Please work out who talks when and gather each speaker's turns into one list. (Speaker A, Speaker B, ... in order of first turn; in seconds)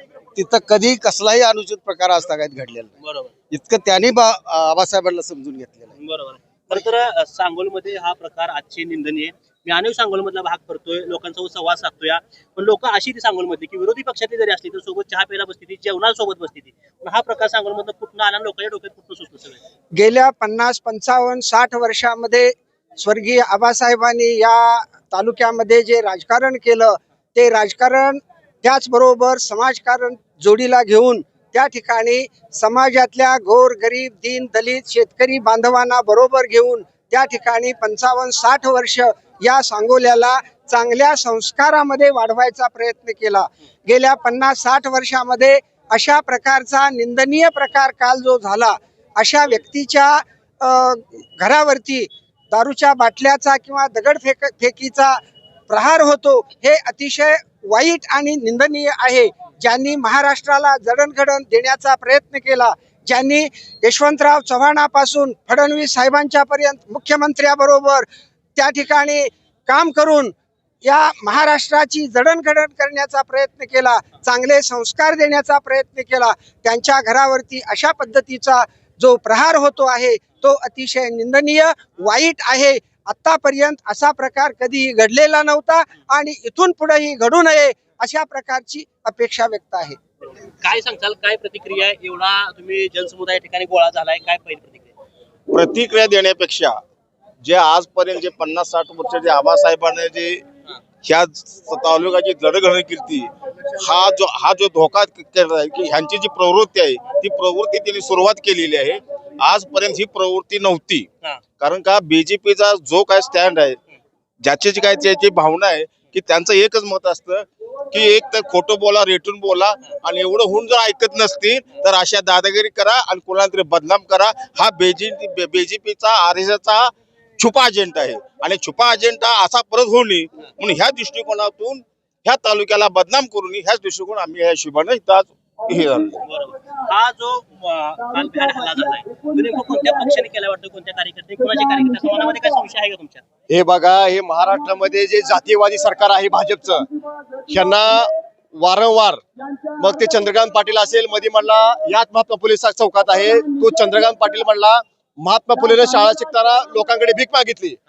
Speaker A: 0.3-2.9, 3.5-5.9
Speaker B: 3.0-3.3, 6.0-19.6, 90.6-94.9, 136.2-143.2
Speaker C: 19.9-90.0
Speaker D: 95.5-96.8, 97.4-100.4, 101.0-111.1, 111.6-113.8, 114.4-136.2
Speaker E: 143.5-146.8, 147.5-149.2, 149.8-157.8